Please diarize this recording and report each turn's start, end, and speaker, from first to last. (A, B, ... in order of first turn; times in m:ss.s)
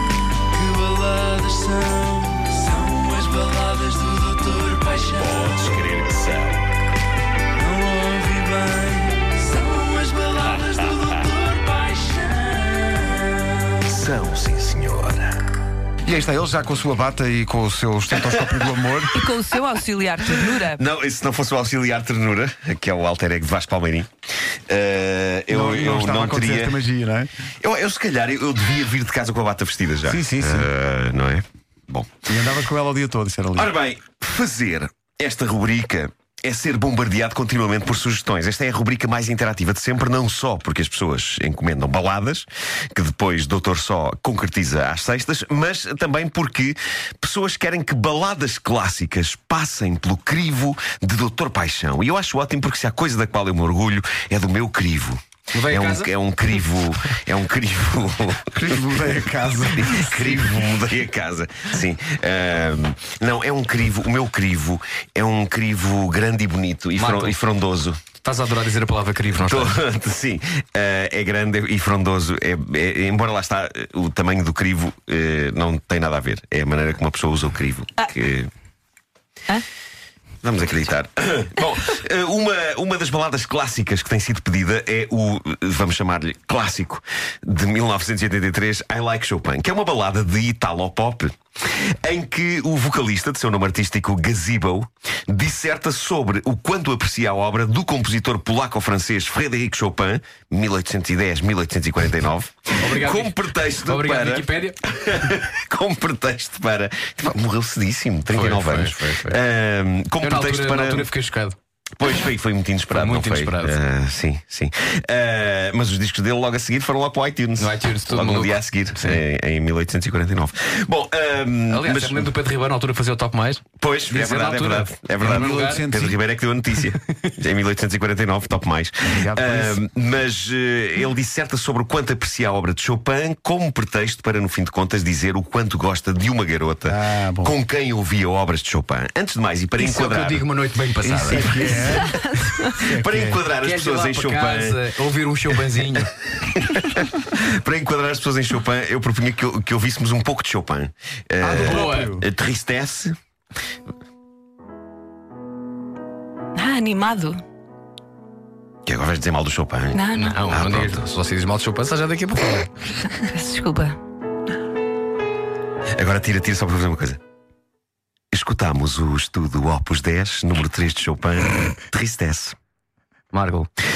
0:00.5-0:05.0 A
0:05.0-0:06.6 B
0:07.6-0:13.2 A
0:10.6-0:11.1 B
0:13.8-0:15.4 B
0:16.0-0:19.2 A
0:18.1-0:19.0 B
0:19.1-0:20.8 C
0:20.3-0:24.1 B
0:24.7-0:26.8 B
0:25.5-0:27.3 A
0:27.6-0:32.1 B
0:30.1-0:30.7 A
0:32.3-0:33.7 A
0:33.6-0:59.0 B
0:55.5-0:56.1 D
0:58.5-1:00.6 A
0:59.6-1:08.0 B
1:07.0-1:07.4 D
1:08.2-1:09.8 D
1:09.4-1:18.5 B
1:20.4-1:51.1 B
1:42.8-1:44.8 D
1:48.3-1:49.4 D
1:50.2-1:51.6 D
1:52.0-2:02.3 B
1:52.9-1:53.8 D
1:57.6-1:59.2 D
2:01.7-2:05.9 D
2:03.8-2:20.4 B
2:05.2-2:06.2 A
2:09.1-2:09.8 A
2:16.9-2:17.6 A
2:19.8-2:21.8 D
2:21.0-2:22.2 A
2:21.3-2:22.2 B
2:21.7-2:22.9 C
2:22.8-2:24.8 B
2:22.8-2:23.4 A
2:23.6-2:26.1 D
2:26.3-2:33.2 B
2:31.4-2:32.2 A
2:31.6-2:32.1 D
2:36.6-2:37.4 C
2:38.9-2:41.1 B
2:39.9-2:40.4 C
2:40.1-2:42.8 D
2:43.0-2:44.0 C
2:46.0-2:47.2 B
2:48.3-2:52.6 B
2:53.3-2:53.7 D